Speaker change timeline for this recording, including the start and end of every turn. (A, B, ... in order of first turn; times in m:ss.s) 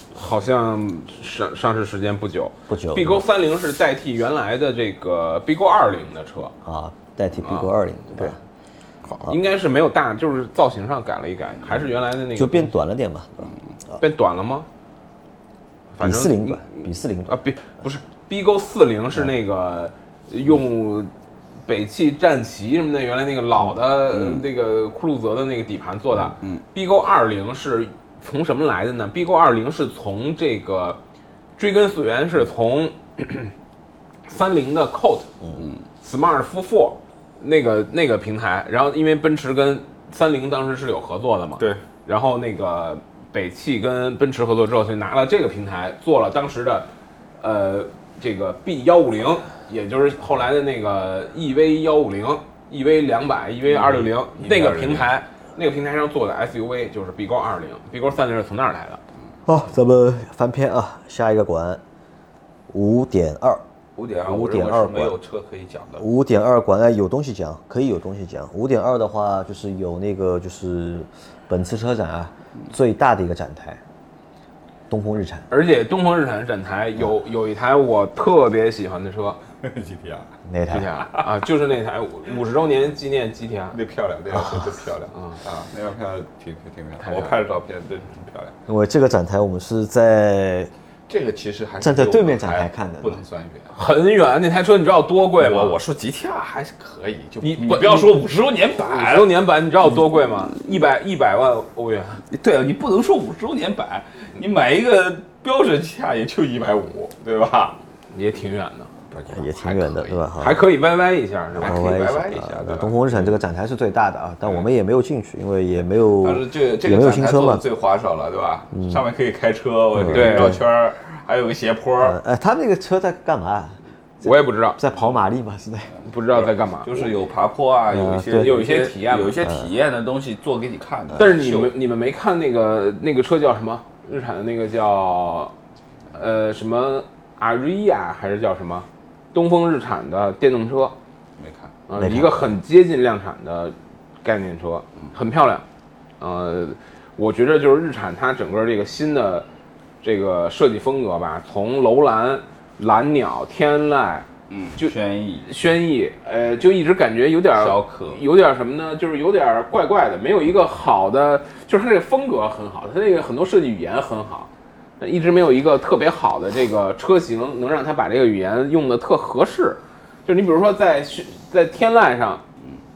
0:00.1-0:06.5 A
0:02.7-0:03.2 B
0:06.6-0:08.4 B
0:07.4-0:08.4 A
0:09.2-0:12.7 A
0:12.4-0:13.5 B
0:14.0-0:14.7 A
0:15.9-0:21.1 A
0:16.0-0:17.4 B
0:21.7-0:31.0 A
0:24.1-0:24.5 C
0:26.4-0:26.6 C
0:31.6-0:33.5 A
0:34.3-0:35.3 A
0:35.6-0:35.8 C
0:36.0-0:46.9 A
0:47.4-0:59.0 A
0:53.7-0:55.2 C
0:59.5-1:01.8 B
1:02.7-1:03.6 B
1:04.0-1:06.1 C
1:04.2-1:05.2 B
1:06.0-1:13.8 B
1:14.9-1:15.5 B
1:15.5-1:19.4 A
1:19.6-1:20.3 C
1:20.4-1:20.9 B
1:20.7-1:23.8 A
1:23.7-1:28.6 C
1:27.0-1:27.4 A
1:28.7-1:30.7 B
1:31.1-1:33.7 C
1:31.8-1:33.2 B
1:33.7-1:35.8 A
1:35.4-1:39.3 C
1:37.4-1:38.2 A
1:38.8-1:42.2 A
1:42.3-1:47.8 C
1:48.1-1:48.9 A
1:49.1-1:50.3 C
1:49.3-1:50.6 B
1:50.4-1:52.7 A
1:51.6-1:53.4 C
1:51.6-1:57.6 B
1:56.1-2:02.2 C
1:58.8-1:59.0 B
2:00.0-2:00.6 B
2:00.1-2:00.6 A
2:02.0-2:05.9 B
2:04.2-2:04.8 A
2:06.0-2:07.1 A
2:06.3-2:11.7 C
2:07.9-2:08.5 B
2:08.4-2:09.4 A
2:09.4-2:09.7 B
2:11.2-2:15.5 A
2:16.1-2:21.0 A
2:21.4-2:21.8 C
2:21.9-2:25.6 A
2:22.0-2:22.6 B
2:26.2-2:29.5 A
2:30.0-2:34.9 A
2:34.5-2:35.5 C
2:35.5-2:44.5 A
2:37.5-2:38.2 C
2:45.0-2:52.4 A